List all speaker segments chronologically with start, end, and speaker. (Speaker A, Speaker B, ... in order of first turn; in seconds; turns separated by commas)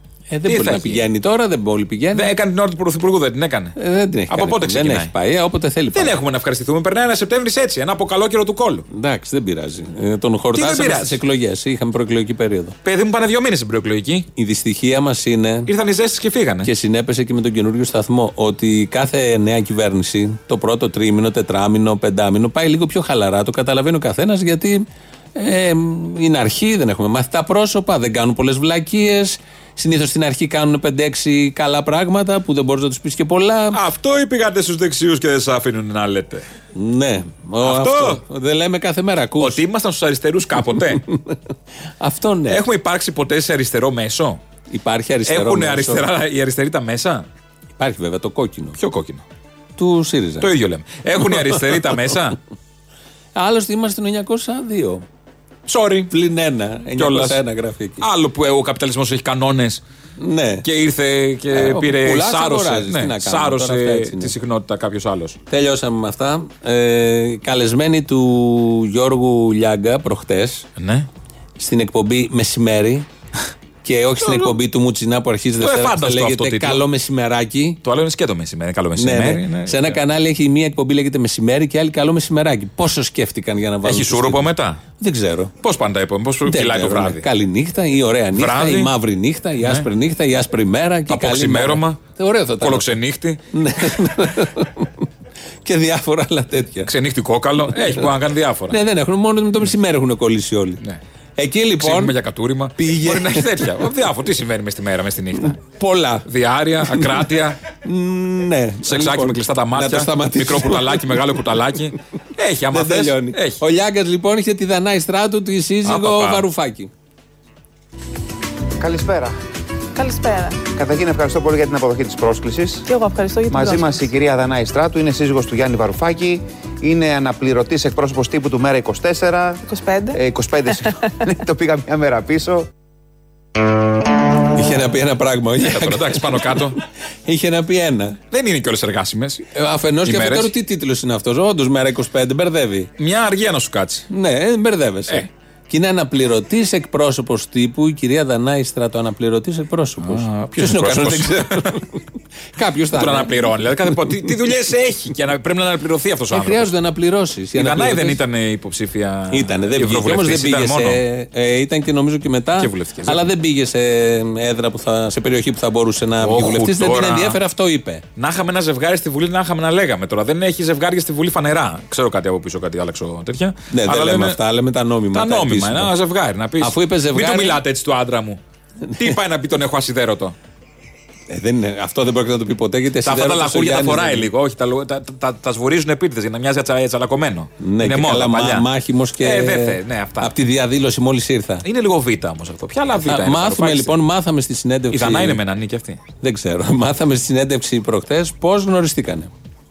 Speaker A: 0.3-2.3, Speaker B: 0.5-1.1, Speaker B: 2.1-3.8, Speaker A: 3.8-6.2, Speaker B: 4.3-5.1, Speaker B: 5.9-8.9, Speaker A: 8.9-12.8, Speaker B: 10.5-11.2, Speaker B: 12.8-14.3, Speaker A: 14.4-15.7, Speaker B: 15.7-16.7, Speaker A: 16.6-33.8, Speaker B: 33.7-36.5, Speaker A: 36.8-39.6, Speaker B: 37.6-38.2, Speaker B: 39.4-41.0, Speaker A: 41.1-41.4, Speaker A: 42.0-42.6, Speaker B: 42.5-44.4, Speaker A: 44.7-46.1, Speaker B: 45.3-47.3, Speaker A: 47.8-48.8, Speaker B: 48.8-49.2, Speaker A: 49.8-50.5, Speaker B: 50.4-52.4, Speaker A: 53.4-55.0, Speaker B: 55.7-56.1, Speaker A: 56.1-58.0, Speaker B: 57.0-57.4, Speaker B: 58.0-59.8, Speaker A: 60.2-60.6, Speaker B: 60.6-65.4, Speaker A: 61.5-64.3, Speaker A: 65.5-70.7, Speaker B: 70.8-71.1, Speaker A: 71.6-73.1, Speaker A: 73.8-77.8, Speaker B: 74.2-74.6, Speaker B: 75.6-76.8, Speaker B: 77.8-80.0, Speaker A: 79.0-85.5, Speaker B: 83.8-84.8, Speaker B: 85.6-87.3, Speaker A: 86.5-92.8, Speaker B: 88.3-88.9, Speaker B: 89.6-89.9, Speaker B: 91.1-92.0, Speaker B: 92.6-94.3, Speaker A: 93.5-95.0, Speaker A: 95.7-96.9, Speaker B: 96.9-98.8, Speaker A: 98.7-100.8, Speaker A: 101.4-102.2, Speaker B: 101.8-105.6, Speaker A: 102.8-103.7, Speaker A: 105.4-106.2, Speaker B: 106.2-107.6, Speaker A: 106.8-111.2, Speaker B: 108.8-113.6, Speaker A: 112.7-116.9, Speaker B: 115.8-116.5, Speaker C: 118.8-119.4, Speaker D: 120.0-120.6, Speaker C: 120.7-122.9, Speaker D: 122.9-124.1, Speaker C: 123.5-129.6, Speaker D: 129.7-130.2, Speaker C: 130.1-132.7, Speaker A: 134.5-138.2, Speaker B: 135.6-136.8, Speaker B: 138.3-139.5, Speaker A: 139.6-142.9, Speaker B: 140.0-140.5, Speaker B: 143.0-144.1, Speaker A: 144.1-152.0, Speaker B: 150.0-151.8, Speaker A: 152.6-153.4, Speaker B: 152.9-156.7, Speaker A: 156.3-158.2, Speaker B: 157.6-161.0, Speaker A: 159.3-168.0, Speaker B: 162.6-163.3, Speaker B: 166.2-167.4, Speaker B: 168.2-174.4, Speaker A: 173.7-175.9, Speaker B: 175.1-178.4, Speaker A: 176.6-177.6, Speaker A: 178.9-179.2, Speaker B: 179.0-180.3, Speaker A: 181.3-184.3, Speaker B: 183.0-188.7, Speaker A: 187.6-191.7, Speaker B: 189.2-190.3, Speaker B: 191.7-194.0, Speaker A: 193.1-195.4, Speaker B: 194.9-196.0, Speaker A: 196.2-199.3